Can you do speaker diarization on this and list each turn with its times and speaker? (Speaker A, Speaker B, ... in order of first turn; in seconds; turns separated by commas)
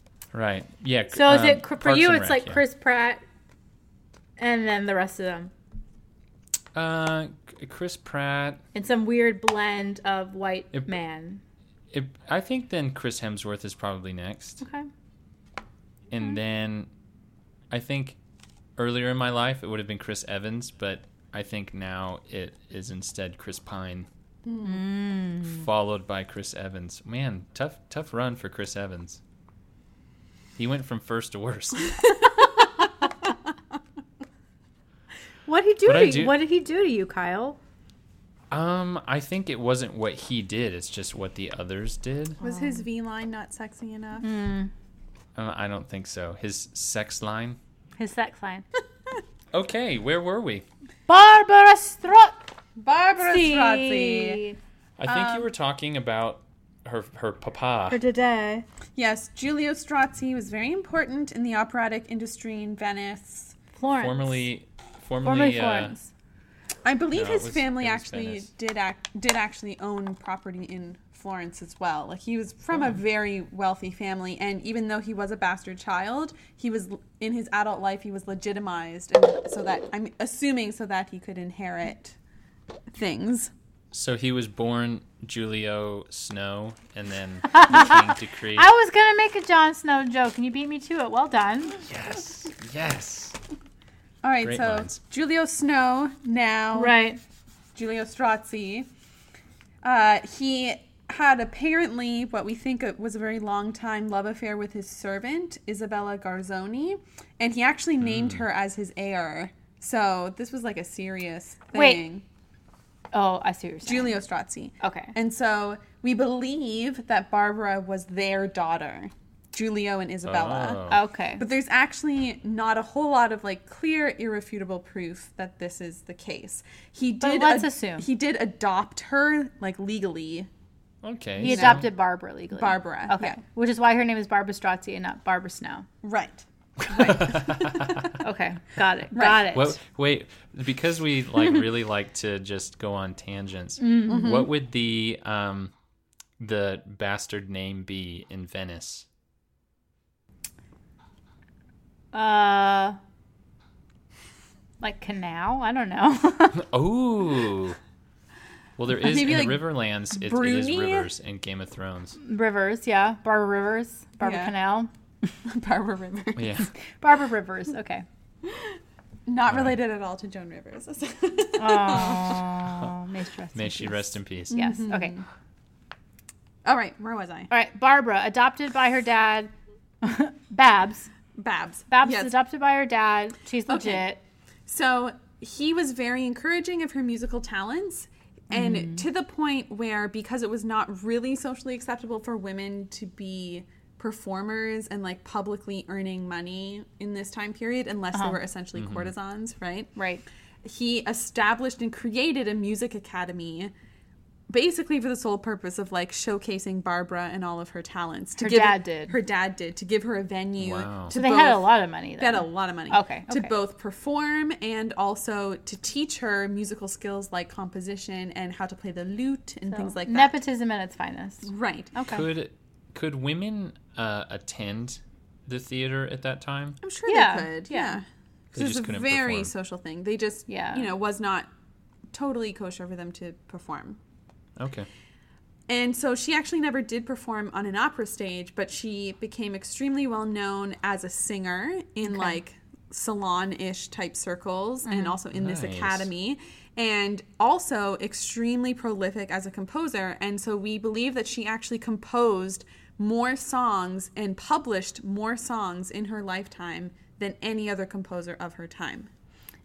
Speaker A: 0.3-2.6, Speaker B: 1.1-3.2, Speaker B: 4.4-5.5, Speaker A: 6.8-8.6, Speaker B: 8.8-11.4, Speaker A: 11.9-14.6, Speaker B: 14.6-14.9, Speaker A: 16.1-16.9, Speaker A: 17.7-18.2, Speaker A: 18.8-24.1, Speaker C: 24.4-24.8, Speaker B: 24.6-25.7, Speaker A: 25.4-29.2, Speaker A: 30.6-32.1, Speaker B: 35.5-37.6, Speaker A: 35.9-36.4, Speaker A: 38.5-42.4, Speaker B: 42.4-42.9, Speaker C: 42.4-44.3, Speaker B: 44.2-44.7, Speaker A: 45.4-47.6, Speaker B: 48.0-48.6, Speaker A: 49.5-50.7, Speaker B: 51.1-52.5, Speaker C: 52.8-54.4, Speaker B: 53.2-54.6, Speaker A: 55.0-58.0, Speaker C: 55.1-55.5, Speaker B: 57.9-58.7, Speaker C: 59.0-63.6, Speaker B: 63.8-64.4, Speaker A: 63.9-66.0, Speaker B: 65.2-66.1, Speaker C: 66.8-82.2, Speaker A: 67.1-68.5, Speaker C: 82.9-83.5, Speaker A: 83.9-88.7, Speaker B: 87.5-91.8, Speaker A: 91.8-93.4, Speaker C: 94.2-97.0, Speaker A: 94.4-95.0, Speaker B: 96.8-97.2, Speaker C: 97.8-98.9, Speaker C: 99.8-112.2, Speaker A: 108.0-108.4, Speaker B: 111.7-112.0, Speaker B: 113.1-114.1, Speaker C: 113.9-130.5, Speaker B: 114.8-115.1, Speaker A: 120.2-121.0, Speaker B: 120.9-121.5, Speaker B: 127.2-128.1, Speaker A: 131.0-131.9, Speaker B: 131.4-135.9, Speaker C: 131.4-131.9, Speaker C: 132.5-133.4, Speaker C: 136.0-138.1, Speaker A: 136.8-138.1, Speaker B: 138.2-139.8, Speaker C: 139.2-139.5, Speaker A: 139.5-145.7, Speaker B: 143.8-144.3, Speaker C: 144.1-144.5, Speaker A: 146.4-149.1, Speaker B: 152.1-153.0, Speaker B: 154.8-156.7, Speaker A: 156.5-157.8, Speaker A: 158.8-162.2, Speaker C: 159.0-161.1, Speaker B: 162.2-165.3, Speaker C: 164.2-164.5, Speaker C: 165.4-166.6, Speaker A: 166.4-166.7, Speaker B: 166.8-168.1, Speaker C: 168.4-172.5, Speaker A: 169.5-169.8, Speaker B: 171.6-175.1, Speaker A: 172.7-172.9, Speaker A: 173.6-174.5, Speaker C: 174.5-175.2, Speaker C: 176.7-177.5, Speaker B: 177.5-179.5, Speaker B: 180.0-181.1, Speaker C: 181.4-182.3, Speaker B: 181.9-184.2, Speaker C: 183.7-184.1, Speaker C: 184.7-200.0, Speaker B: 188.5-189.0, Speaker A: 198.8-199.1, Speaker B: 200.0-200.2, Speaker C: 200.6-203.7, Speaker C: 204.5-220.4, Speaker B: 208.4-209.2, Speaker A: 210.6-211.2, Speaker B: 211.1-213.5, Speaker B: 219.7-222.2, Speaker C: 221.4-221.9, Speaker A: 222.1-226.8, Speaker C: 226.8-231.5, Speaker B: 227.1-228.0, Speaker A: 228.5-229.5, Speaker B: 230.5-230.9, Speaker C: 232.1-234.0, Speaker A: 234.6-234.9, Speaker C: 235.7-259.1, Speaker B: 242.1-242.4, Speaker B: 244.9-245.2, Speaker A: 245.3-246.1